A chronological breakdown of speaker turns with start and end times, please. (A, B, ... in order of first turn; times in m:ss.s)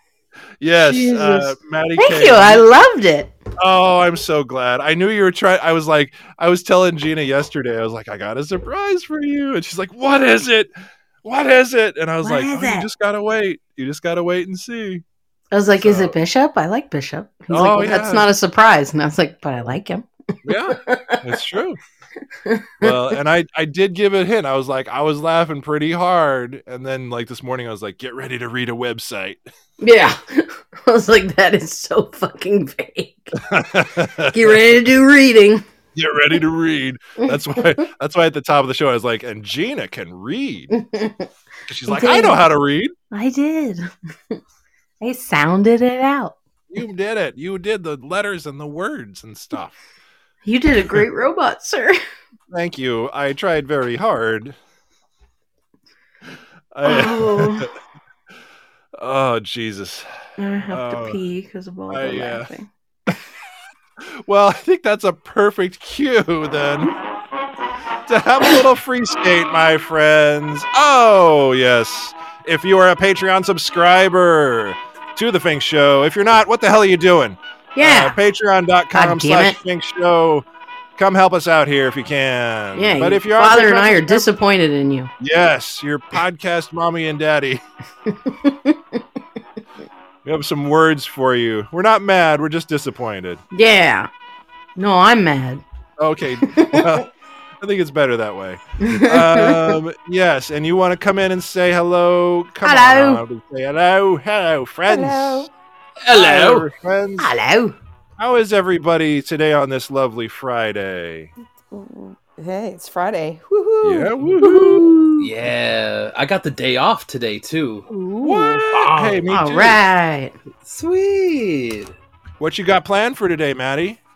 0:00.6-0:02.7 A
0:00.8-0:03.3 B
0:03.6-0:10.7 A
0:11.2-0:15.0 A
0:12.2-0:12.9 B
0:15.5-0:21.2 B
0:15.8-0:16.2 A
0:17.5-0:18.3 A
0:20.4-0:21.8 A
0:22.4-0:23.2 B
0:22.8-0:29.5 A
0:29.8-0:33.4 B
0:33.4-0:34.6 A
0:34.2-0:35.6 B
0:36.0-0:40.7 A
0:37.2-0:37.9 B
0:40.7-0:41.3 B
0:41.7-0:42.9 A
0:41.9-0:42.4 B
0:43.1-0:44.4 B
0:45.0-0:46.4 B
0:46.7-0:49.8 A
0:50.4-0:52.0 B
0:52.5-0:54.6 A
0:56.7-0:57.7 A
0:56.8-0:57.7 B
0:59.0-1:00.1 A
1:00.4-1:02.7 B
1:00.6-1:01.2 A
1:01.9-1:02.5 A
1:04.0-1:06.9 A
1:08.0-1:20.4 A
1:17.8-1:18.2 B
1:18.9-1:19.6 B
1:21.0-1:24.3 A
1:22.8-1:25.1 B
1:25.2-1:27.6 A
1:28.1-1:29.0 B
1:30.2-1:33.4 A
1:33.5-1:34.1 B
1:34.8-1:35.6 B
1:36.0-1:37.1 A
1:36.4-1:37.0 B
1:37.6-1:45.5 A
1:38.8-1:39.8 B
1:42.6-1:43.2 B
1:44.9-1:45.5 C
1:46.0-1:46.7 D
1:46.1-1:47.4 A
1:47.2-1:47.8 B
1:48.2-1:51.3 A
1:51.7-1:54.4 C
1:53.8-1:54.8 A
1:54.4-1:55.3 B
1:55.2-1:57.9 D
1:57.9-1:58.7 C
1:58.2-1:59.8 A
1:58.7-1:59.2 D
1:59.2-2:00.4 B
2:00.6-2:01.9 D
2:02.4-2:04.0 A